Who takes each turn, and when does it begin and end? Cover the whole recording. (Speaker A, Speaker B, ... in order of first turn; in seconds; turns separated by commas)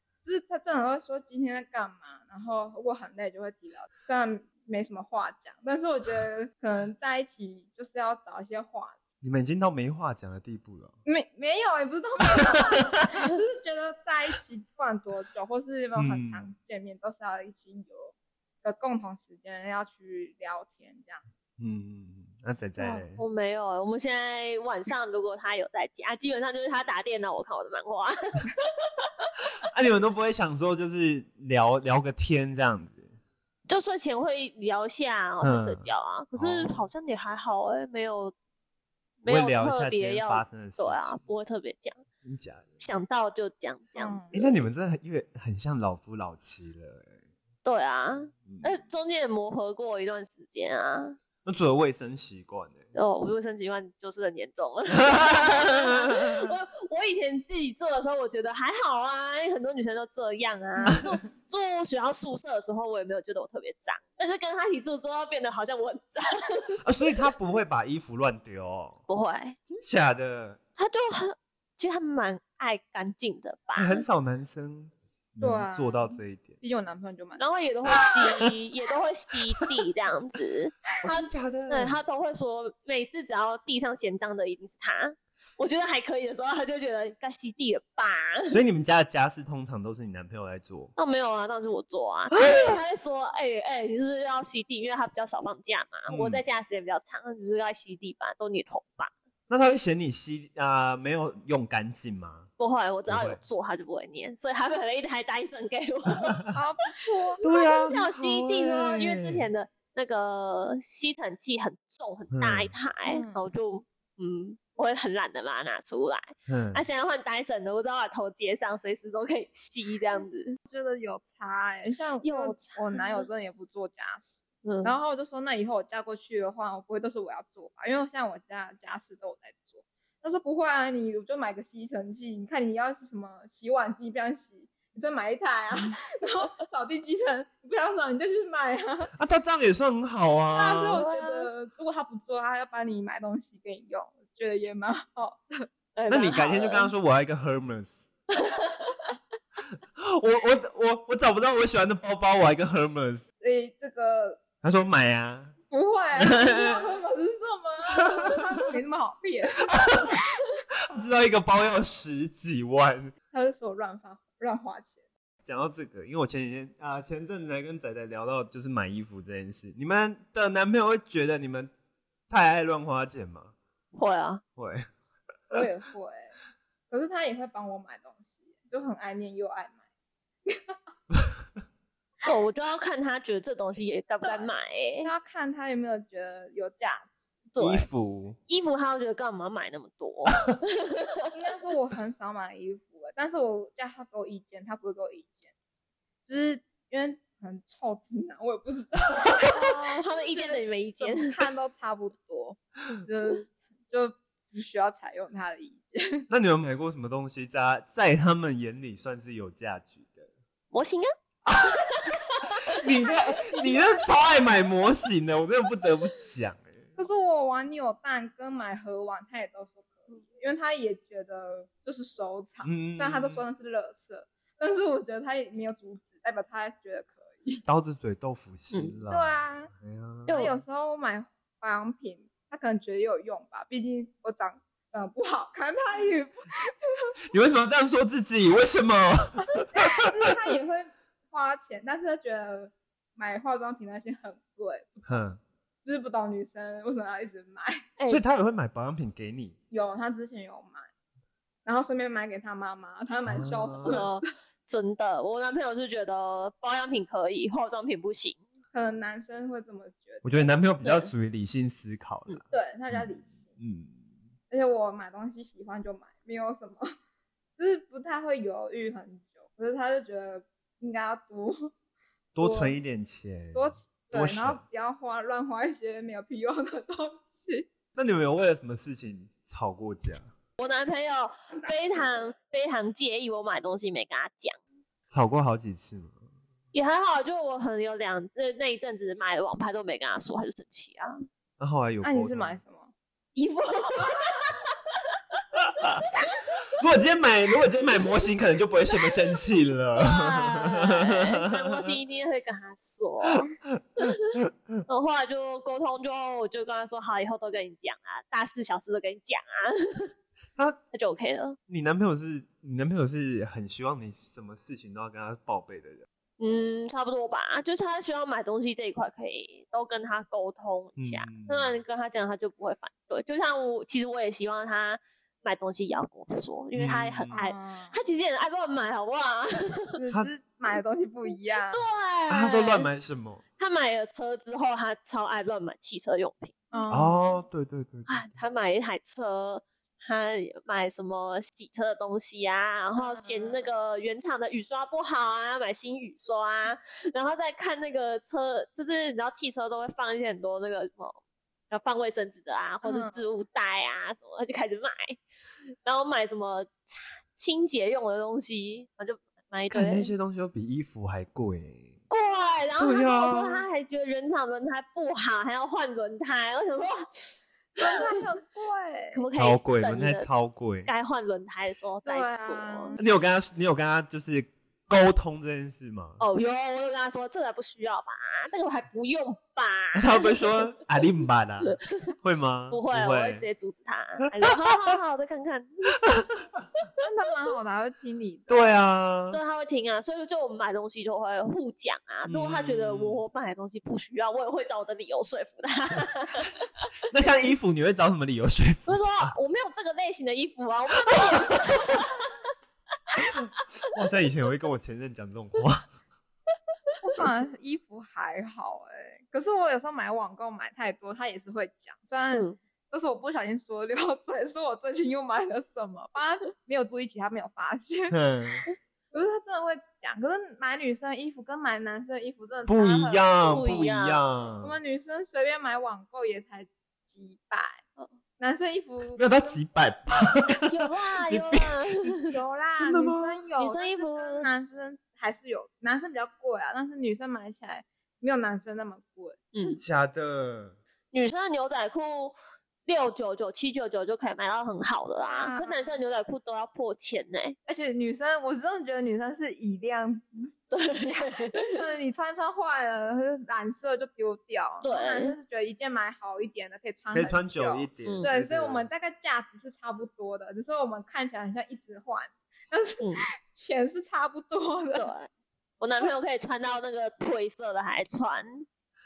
Speaker A: 0.2-9.0, Speaker B: 9.2-10.9, Speaker A: 11.1-21.3, Speaker B: 12.4-12.8, Speaker B: 15.9-16.5, Speaker B: 21.6-23.2, Speaker C: 22.8-29.3, Speaker B: 29.7-33.1, Speaker C: 33.7-38.3, Speaker B: 35.4-36.9, Speaker C: 39.2-42.0, Speaker B: 39.3-41.1, Speaker B: 42.2-42.8, Speaker C: 42.8-44.5, Speaker A: 44.0-44.4, Speaker B: 44.3-47.2, Speaker C: 47.6-51.2, Speaker B: 51.4-52.9, Speaker C: 52.9-66.8, Speaker B: 55.0-56.5, Speaker B: 66.8-69.0, Speaker C: 69.1-69.6, Speaker B: 69.7-70.6, Speaker C: 70.8-74.0, Speaker B: 73.8-76.6, Speaker A: 75.4-77.4, Speaker C: 77.4-88.6, Speaker B: 81.0-82.0, Speaker B: 88.5-90.9, Speaker C: 91.0-99.1, Speaker B: 92.3-92.8, Speaker B: 96.1-96.4, Speaker B: 99.5-102.5, Speaker C: 102.6-106.5, Speaker B: 103.1-103.4, Speaker A: 106.5-107.5, Speaker B: 107.4-109.5, Speaker C: 107.4-120.6, Speaker B: 112.3-112.7, Speaker A: 113.1-113.4, Speaker B: 116.5-116.8, Speaker A: 120.7-139.1, Speaker C: 122.2-123.2, Speaker C: 124.6-125.0, Speaker B: 139.2-141.0, Speaker A: 140.5-145.7, Speaker C: 140.9-141.5, Speaker C: 145.9-146.9, Speaker B: 146.1-148.0, Speaker C: 148.3-149.1, Speaker B: 150.0-153.2, Speaker A: 153.4-154.4, Speaker B: 154.6-155.5, Speaker A: 155.7-160.4, Speaker B: 156.2-156.8, Speaker B: 159.6-160.2, Speaker B: 160.9-163.1, Speaker A: 163.3-165.0, Speaker B: 165.4-171.7, Speaker B: 172.3-173.5, Speaker C: 173.9-174.4, Speaker B: 174.6-174.9, Speaker A: 175.5-176.3, Speaker A: 176.9-179.8, Speaker A: 180.5-180.8, Speaker C: 182.2-185.1, Speaker A: 184.2-184.5, Speaker A: 185.0-187.2, Speaker C: 187.6-187.9, Speaker B: 187.6-188.4, Speaker C: 188.5-191.2, Speaker A: 191.3-195.5, Speaker A: 196.3-206.3, Speaker C: 199.5-201.4, Speaker B: 206.3-210.3, Speaker C: 210.7-211.1, Speaker B: 211.5-216.9, Speaker C: 211.6-212.8, Speaker A: 213.0-214.0, Speaker A: 217.0-227.6, Speaker B: 222.6-223.4, Speaker B: 227.7-230.3, Speaker A: 229.1-229.7, Speaker C: 230.3-230.6, Speaker A: 230.3-237.1, Speaker B: 237.3-240.1, Speaker A: 239.7-245.2, Speaker B: 245.1-245.4, Speaker A: 245.8-247.9, Speaker C: 248.0-248.2, Speaker B: 248.1-249.6, Speaker A: 249.7-250.9, Speaker A: 251.7-254.1, Speaker B: 253.3-254.0, Speaker C: 253.8-258.4, Speaker A: 258.7-260.5, Speaker B: 260.2-264.0, Speaker C: 260.8-261.1, Speaker A: 262.5-263.6, Speaker A: 264.5-266.9, Speaker A: 267.6-271.7, Speaker B: 272.4-274.6, Speaker A: 272.4-272.8, Speaker A: 273.5-277.7, Speaker B: 277.9-280.3, Speaker C: 280.6-284.6, Speaker B: 285.1-286.2, Speaker C: 286.7-291.2, Speaker B: 291.6-292.6, Speaker A: 292.0-292.9, Speaker C: 293.4-294.6, Speaker C: 296.2-296.6, Speaker B: 296.8-301.9, Speaker C: 299.9-310.1, Speaker B: 303.3-304.8, Speaker C: 310.9-311.6, Speaker B: 311.7-316.1, Speaker C: 316.4-329.9, Speaker B: 321.0-321.8, Speaker B: 326.8-327.4, Speaker A: 327.3-328.0, Speaker A: 330.0-331.8, Speaker C: 331.7-332.9, Speaker B: 332.3-333.4, Speaker C: 333.6-336.6, Speaker A: 336.7-337.3, Speaker B: 336.9-338.3, Speaker C: 338.1-351.2, Speaker A: 343.0-343.6, Speaker C: 351.7-355.2, Speaker A: 352.8-353.2, Speaker C: 355.8-360.1, Speaker B: 359.7-362.0, Speaker C: 362.1-368.2, Speaker B: 362.8-363.6, Speaker A: 367.8-369.2, Speaker C: 369.1-370.3, Speaker B: 369.4-370.9, Speaker C: 370.9-373.0, Speaker A: 372.1-373.0, Speaker B: 373.0-376.2, Speaker C: 376.2-380.6, Speaker B: 379.9-383.5, Speaker C: 381.7-382.1, Speaker C: 382.7-386.0, Speaker B: 384.4-384.9, Speaker A: 387.0-388.7, Speaker B: 388.5-389.4, Speaker C: 389.3-396.6, Speaker B: 392.3-393.2, Speaker B: 397.1-399.3, Speaker C: 398.9-402.4, Speaker B: 401.1-401.4, Speaker B: 403.2-405.9, Speaker A: 407.0-423.6, Speaker B: 418.1-418.6, Speaker B: 422.7-424.8, Speaker C: 423.5-424.2, Speaker A: 424.6-427.8, Speaker A: 428.4-429.6, Speaker B: 429.2-432.2, Speaker C: 430.7-432.3, Speaker A: 432.3-439.8, Speaker B: 432.8-433.4, Speaker C: 433.6-434.5, Speaker C: 439.5-439.8, Speaker B: 439.8-440.8, Speaker C: 441.1-447.6, Speaker A: 445.2-446.0, Speaker A: 447.7-465.1, Speaker C: 450.7-451.8, Speaker C: 454.8-455.4, Speaker B: 457.1-458.9, Speaker C: 458.1-458.3, Speaker C: 463.0-463.3, Speaker C: 465.0-465.3, Speaker C: 465.8-468.7